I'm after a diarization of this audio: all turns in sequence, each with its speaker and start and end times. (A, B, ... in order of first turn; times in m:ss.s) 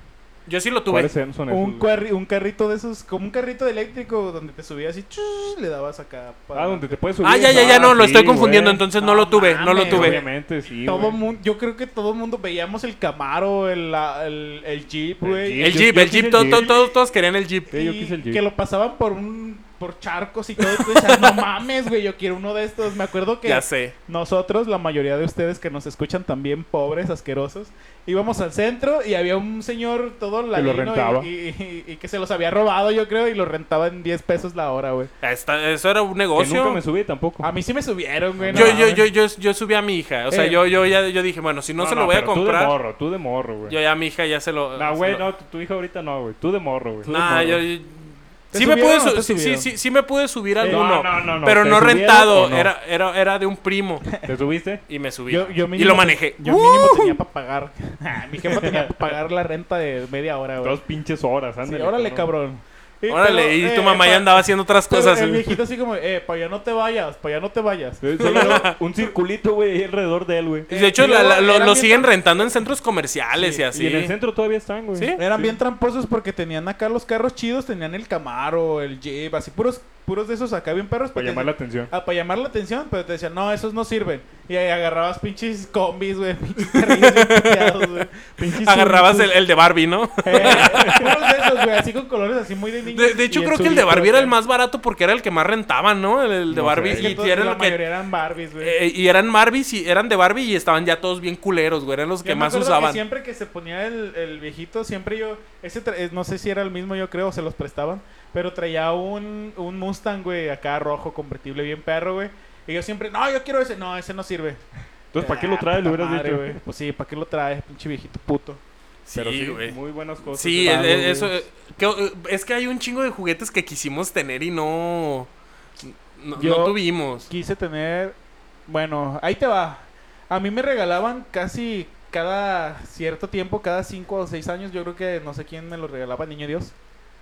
0:00.5-0:01.1 A
0:00.9-0:01.9 B
0:01.5-0:08.4 C
0:06.5-0:08.8 B
0:07.2-0:10.2 A
0:08.9-0:10.3 C
0:09.9-0:11.2 B
0:10.8-0:16.9 C
0:15.2-0:16.7 B
0:15.6-0:17.7 A
0:17.7-0:35.1 C
0:17.7-0:18.4 B
0:20.6-0:21.4 A
0:23.4-0:23.9 A
0:30.5-0:31.3 B
0:35.2-0:36.8 A
0:36.4-0:37.5 B
0:37.4-0:39.1 C
0:38.4-0:39.0 B
0:38.5-0:42.7 A
0:40.3-0:40.6 C
0:41.8-0:43.7 B
0:43.6-0:45.2 A
0:44.8-0:47.6 B
0:47.0-0:54.1 A
0:47.1-0:47.4 C
0:48.5-0:49.7 C
0:50.6-0:52.7 B
0:54.2-0:54.8 B
0:54.9-0:57.2 A
0:55.3-1:00.8 C
0:58.5-0:58.9 B
1:00.6-1:02.3 B
1:01.6-1:08.7 C
1:03.1-1:05.5 A
1:08.0-1:10.7 B
1:08.2-1:08.7 A
1:10.7-1:12.5 C
1:10.7-1:14.1 A
1:13.4-1:13.6 C
1:13.7-1:15.6 B
1:15.0-1:15.2 A
1:15.2-1:29.3 C
1:21.1-1:21.9 B
1:26.7-1:27.9 A
1:28.6-1:31.7 A
1:30.2-1:34.3 C
1:30.3-1:31.0 B
1:32.9-1:37.8 A
1:36.5-1:37.1 B
1:37.0-1:38.7 C
1:38.6-1:43.0 A
1:42.2-1:54.6 C
1:55.1-1:56.6 B
1:55.2-1:58.6 C
1:59.1-1:59.8 A
1:59.1-2:01.3 B
2:00.3-2:05.3 A
2:00.6-2:01.0 C
2:05.8-2:07.3 A
2:06.4-2:06.7 C
2:07.3-2:16.7 C